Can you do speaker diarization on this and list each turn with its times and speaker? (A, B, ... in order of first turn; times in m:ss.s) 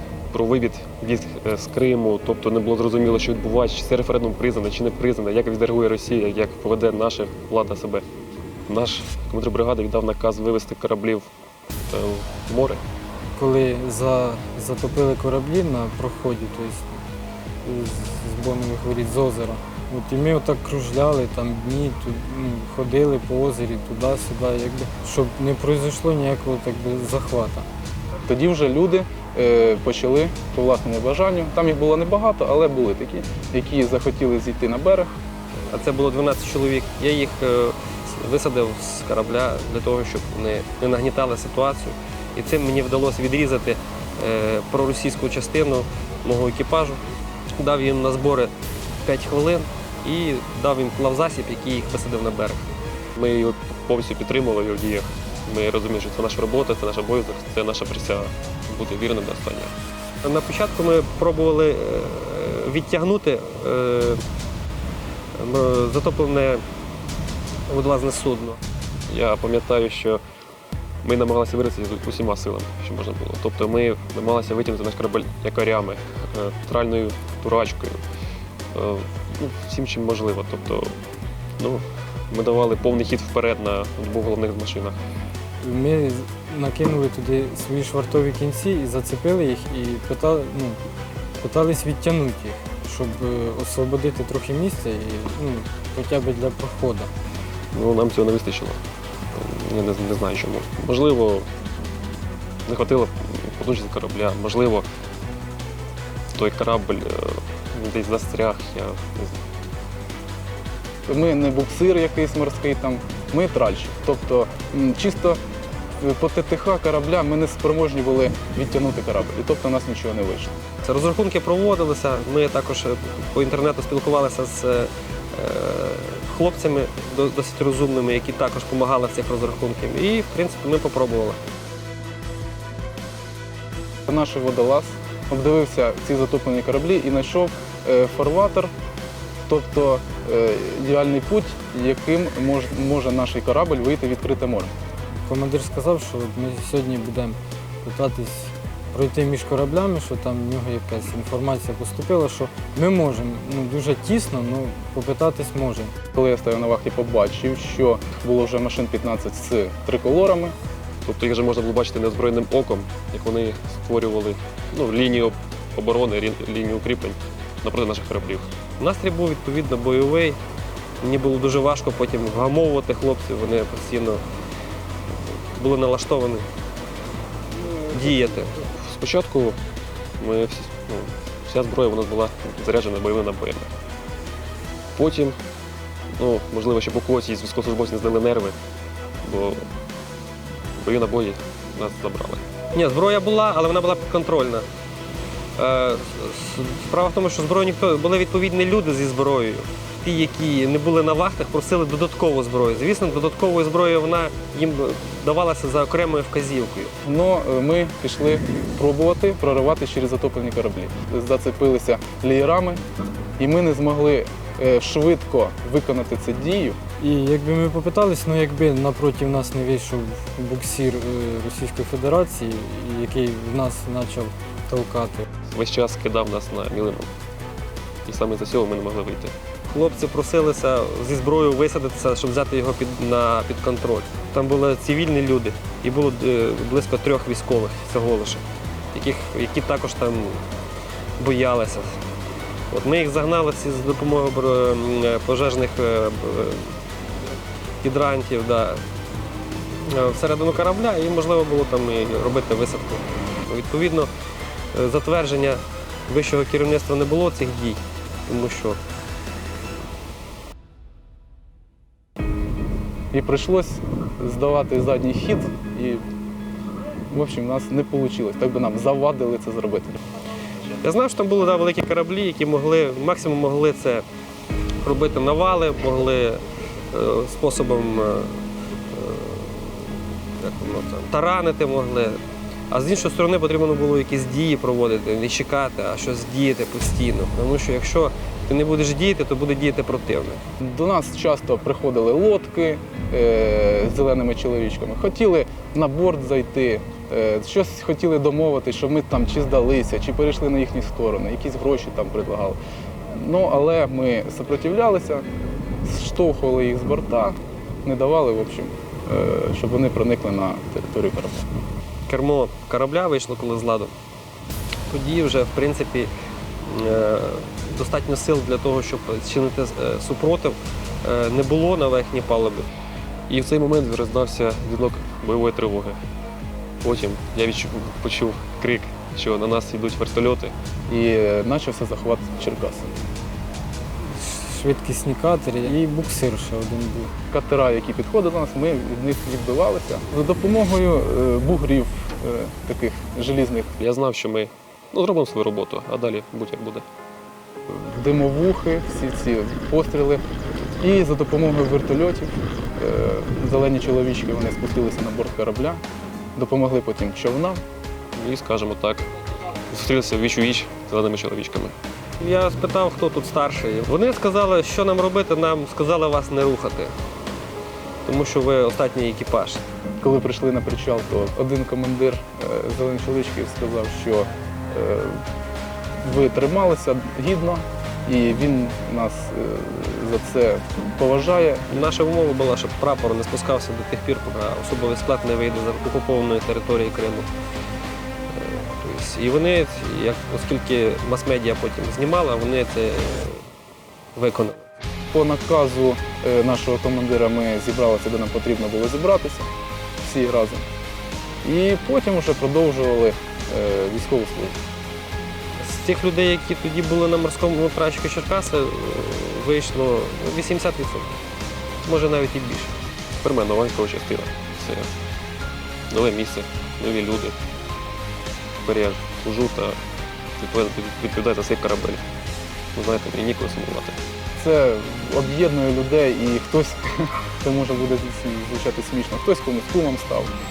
0:00.3-0:08.0 A
0:08.7-0:11.3 A
0:11.9-0:12.8 A
0:13.3-0:17.0 B
0:17.6-0:27.7 B
0:28.2-0:35.1 C
0:35.7-0:47.0 D
0:47.5-0:52.7 D
0:53.2-0:59.7 A
1:00.2-1:04.2 D
1:05.4-1:06.6 D
1:07.7-1:08.6 D
1:09.1-1:10.2 A
1:11.0-1:18.0 A
1:18.7-1:21.0 A
1:21.6-1:25.0 A
1:25.6-1:30.8 B
1:31.4-1:37.1 B
1:37.7-1:38.8 A
1:39.3-1:41.5 A
1:42.7-1:44.8 A
1:46.3-1:49.4 A
1:51.1-1:55.4 C
1:56.0-2:00.5 C
2:00.8-2:11.4 D
2:14.1-2:18.7 C
2:19.5-2:24.7 C
2:25.3-2:35.9 B
2:36.1-2:40.5 C
2:41.0-2:48.5 A
2:48.8-2:50.4 D
2:51.0-2:54.2 D
2:55.5-2:56.5 D
2:57.9-2:58.6 D
2:58.6-2:59.6 A
3:00.2-3:03.7 A
3:05.0-3:05.4 A
3:06.2-3:08.6 A
3:09.2-3:09.7 A
3:10.8-3:12.4 A
3:12.7-3:14.7 D
3:15.6-3:26.9 D
3:27.0-3:32.8 C
3:33.4-3:36.8 C
3:37.0-3:45.3 B
3:45.5-3:47.1 A
3:48.0-3:49.3 A
3:49.7-4:00.4 D
4:01.2-4:02.0 D
4:02.7-4:06.8 D
4:07.8-4:08.8 D
4:09.8-4:14.1 D
4:14.7-4:18.8 D
4:23.1-4:26.0 C
4:27.1-4:30.0 C
4:30.8-4:34.0 D
4:34.8-4:50.4 D
4:50.6-5:02.6 C
5:03.1-5:05.2 C
5:05.8-5:11.5 C
5:12.1-5:13.9 D
5:14.9-5:16.1 D
5:16.6-5:22.7 D
5:23.3-5:26.0 A
5:26.8-5:30.5 A
5:30.9-5:32.9 C
5:34.1-5:37.1 B
5:37.3-5:43.8 C
5:43.8-5:46.8 A
5:47.7-5:50.2 C
5:50.8-5:55.8 C
5:56.4-5:57.6 C
5:58.1-5:59.1 A
5:59.7-6:01.8 A
6:02.2-6:06.9 D
6:08.0-6:09.6 D
6:10.0-6:15.2 C
6:16.0-6:21.6 C
6:21.7-6:27.3 D
6:28.3-6:33.4 D
6:34.1-6:34.6 D
6:35.1-6:39.5 C
6:40.0-6:40.6 C
6:41.4-6:44.6 C
6:45.6-6:51.1 D
6:51.8-6:52.7 D
6:53.2-6:54.9 A
6:55.9-6:57.4 A
6:58.6-6:59.8 A
7:00.4-7:02.0 A
7:02.8-7:04.0 A
7:04.4-7:10.3 C